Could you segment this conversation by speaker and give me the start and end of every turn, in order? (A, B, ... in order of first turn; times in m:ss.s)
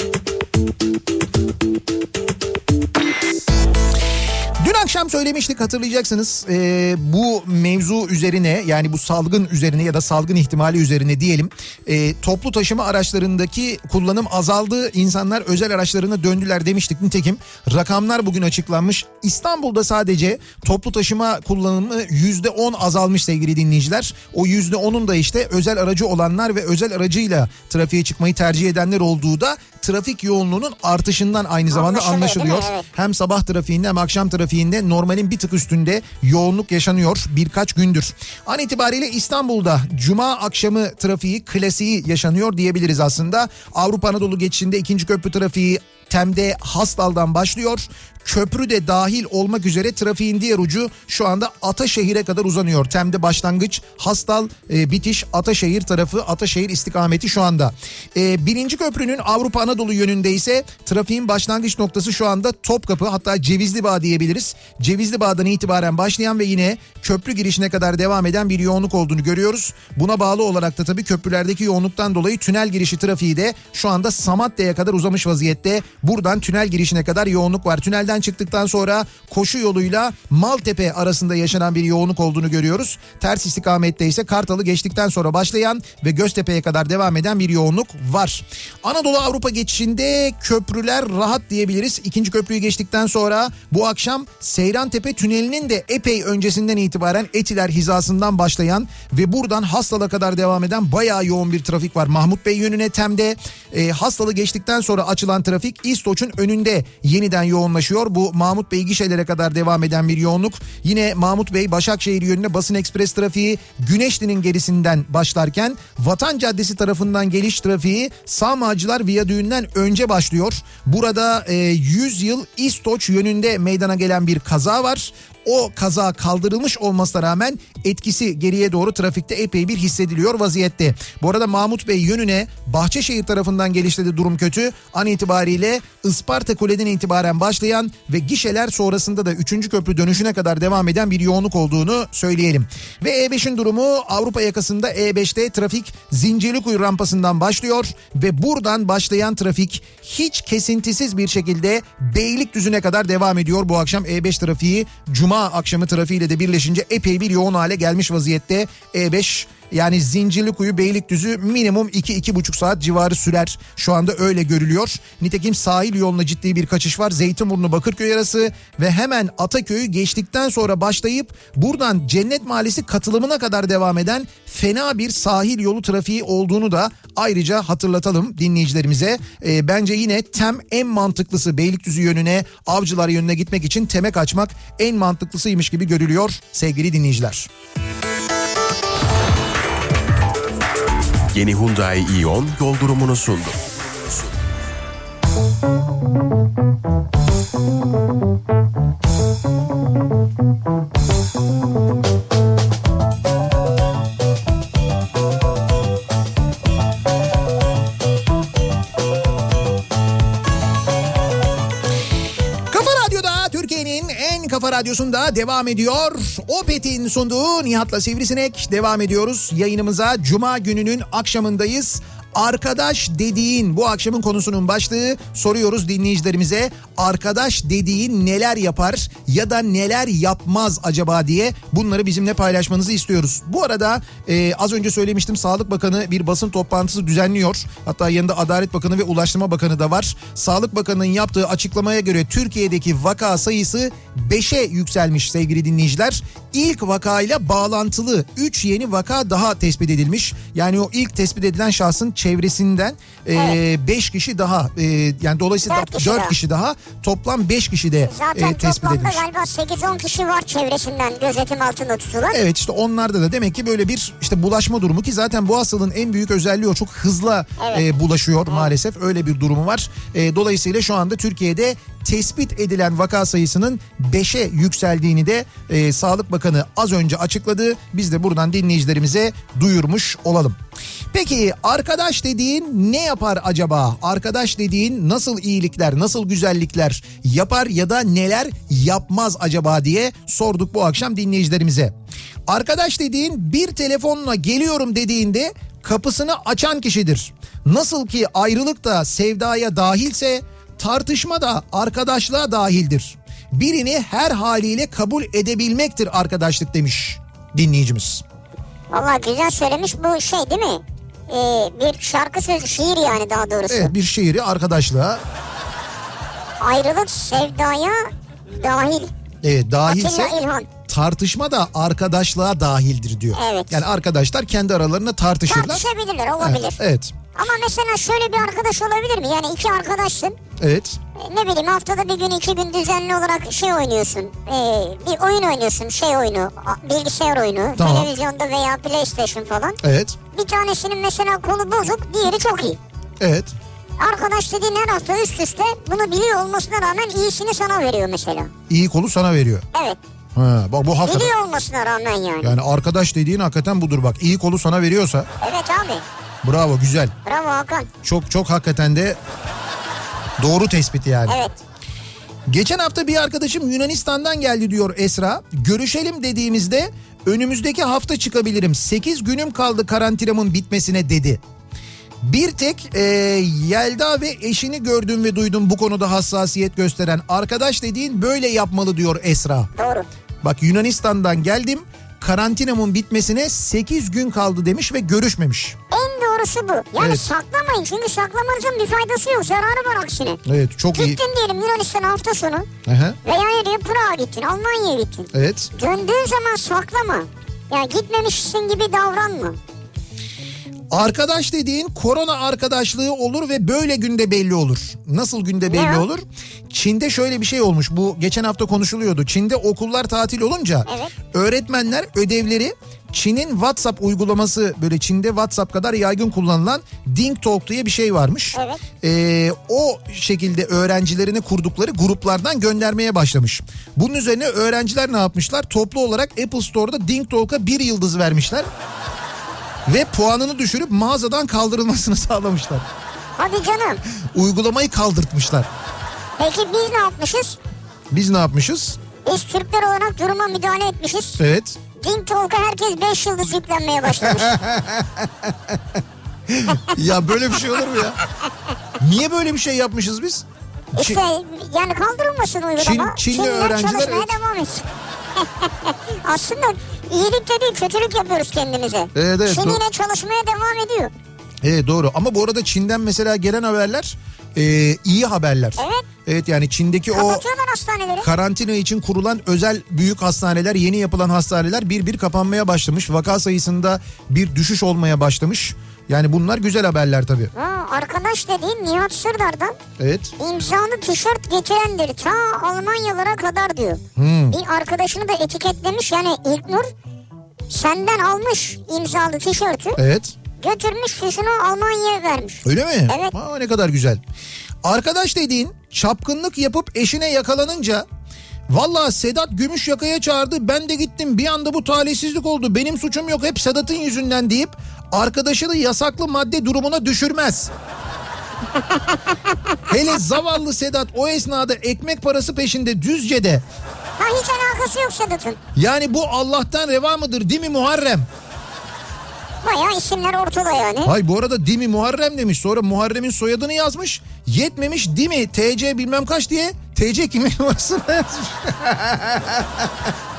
0:04.6-3:07.5 A
0:31.7-0:32.9 B
3:11.3-3:14.4 C
3:32.7-4:19.2 A
4:15.7-4:16.4 B
4:18.1-4:22.4 B
4:22.3-4:40.6 A
4:27.6-4:27.8 B
4:41.1-4:51.9 A
4:52.5-5:08.2 A
5:08.9-5:13.9 B
5:13.7-5:15.2 A
5:16.6-5:19.1 B
5:19.4-5:25.9 A
5:19.9-5:20.7 B
5:23.3-5:23.8 B
5:25.5-5:26.8 B
5:26.4-5:27.1 A
5:27.4-5:30.4 B
5:30.6-5:31.0 A
5:31.2-5:39.8 B
5:37.8-5:38.1 A
5:39.8-5:40.2 A
5:40.3-5:42.8 B
5:43.2-5:43.5 A
5:44.0-5:48.5 B
5:48.7-5:49.6 A
5:49.7-5:50.0 B
5:50.4-5:51.3 A
5:51.0-5:52.6 B
5:52.4-5:55.3 A
5:55.4-5:56.0 B
5:56.4-5:57.1 A
5:57.2-5:57.9 B
5:58.0-5:59.2 A
6:00.4-6:01.4 A
6:01.3-6:01.6 B
6:02.5-6:11.4 A
6:12.2-6:19.7 A
6:19.8-6:20.1 B
6:20.4-6:25.8 A
6:25.9-6:30.4 B
6:27.0-6:27.3 A
6:30.4-6:31.2 A
6:30.9-6:32.7 B
6:32.9-6:33.2 A
6:33.2-6:39.6 B
6:35.3-6:35.7 A
6:40.9-7:08.7 A
6:45.7-6:46.0 B
6:50.9-6:51.1 B
6:58.6-6:58.8 B
7:09.9-7:12.9 A
7:13.4-7:14.0 B
7:14.3-7:15.7 A
7:16.4-7:17.6 B
7:18.1-7:19.0 A
7:19.2-7:21.4 B
7:21.4-7:21.8 A
7:22.0-7:24.6 B
7:24.2-7:25.8 A
7:26.5-7:28.2 A
7:29.0-7:31.2 A
7:31.0-7:41.1 B
7:32.8-7:34.4 A
7:39.2-7:39.8 A
7:41.6-7:47.4 A
7:45.8-7:46.1 B
7:47.1-7:48.3 B
7:48.2-7:57.5 A
7:57.5-7:59.8 B
8:00.0-8:00.3 A
8:00.4-8:06.9 B
8:04.2-8:04.6 A
8:07.7-8:10.0 B
8:10.0-8:10.4 A
8:10.6-8:13.3 B
8:12.6-8:14.2 A
8:14.8-8:18.0 A
8:18.7-8:27.7 A
8:29.0-8:29.6 B
8:29.9-8:33.6 A
8:34.2-8:35.6 B
8:35.8-8:38.3 A
8:39.6-8:41.2 B
8:41.0-8:49.9 A